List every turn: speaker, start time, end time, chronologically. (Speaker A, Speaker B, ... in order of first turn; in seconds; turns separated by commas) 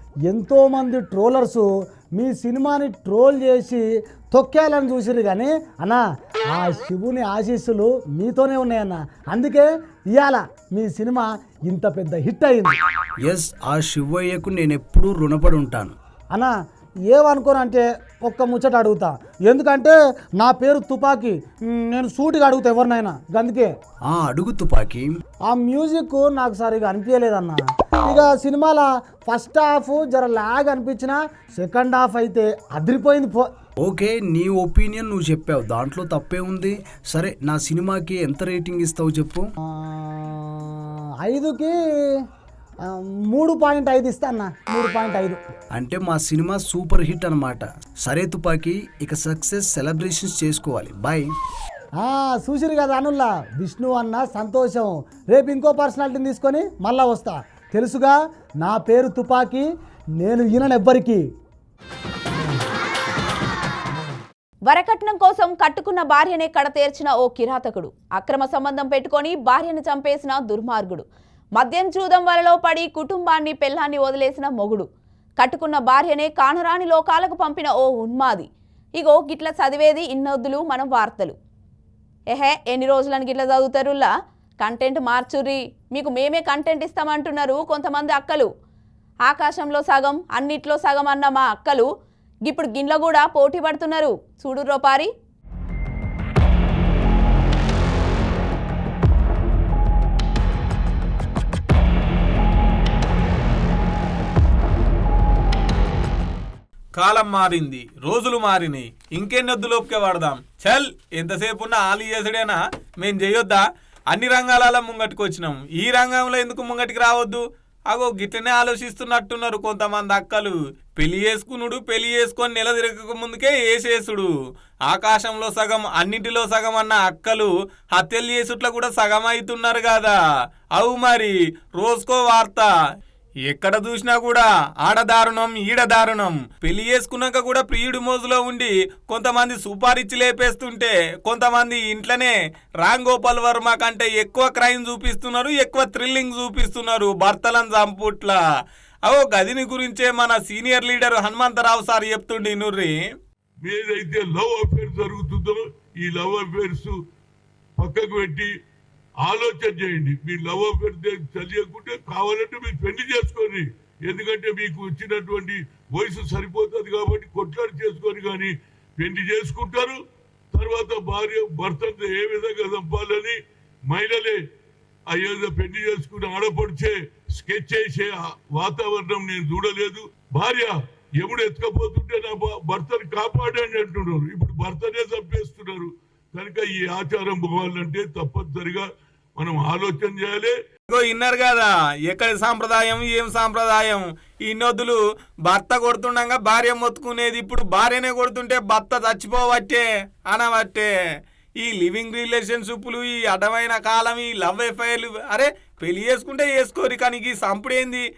Speaker A: 0.3-12.8, Speaker B: 13.2-15.9, Speaker A: 17.1-23.7, Speaker B: 24.1-25.1, Speaker A: 25.5-33.5, Speaker B: 33.8-39.5, Speaker A: 39.7-41.8, Speaker A: 42.9-45.4, Speaker B: 45.7-51.3, Speaker A: 52.0-59.7, Speaker A: 60.2-61.2, Speaker C: 64.7-71.0, Speaker C: 71.6-74.9, Speaker C: 75.4-81.3, Speaker C: 82.3-84.1, Speaker C: 84.6-88.5, Speaker C: 89.3-91.9, Speaker C: 92.5-95.1, Speaker D: 107.0-124.3, Speaker D: 124.9-130.1, Speaker D: 130.8-132.7, Speaker D: 133.5-148.4, Speaker D: 149.1-152.9, Speaker E: 153.6-156.9, Speaker E: 157.8-158.5, Speaker E: 159.2-170.0, Speaker E: 170.5-173.4, Speaker E: 173.9-174.4, Speaker E: 175.1-188.9, Speaker E: 189.4-190.5, Speaker D: 190.9-200.9, Speaker D: 201.6-208.0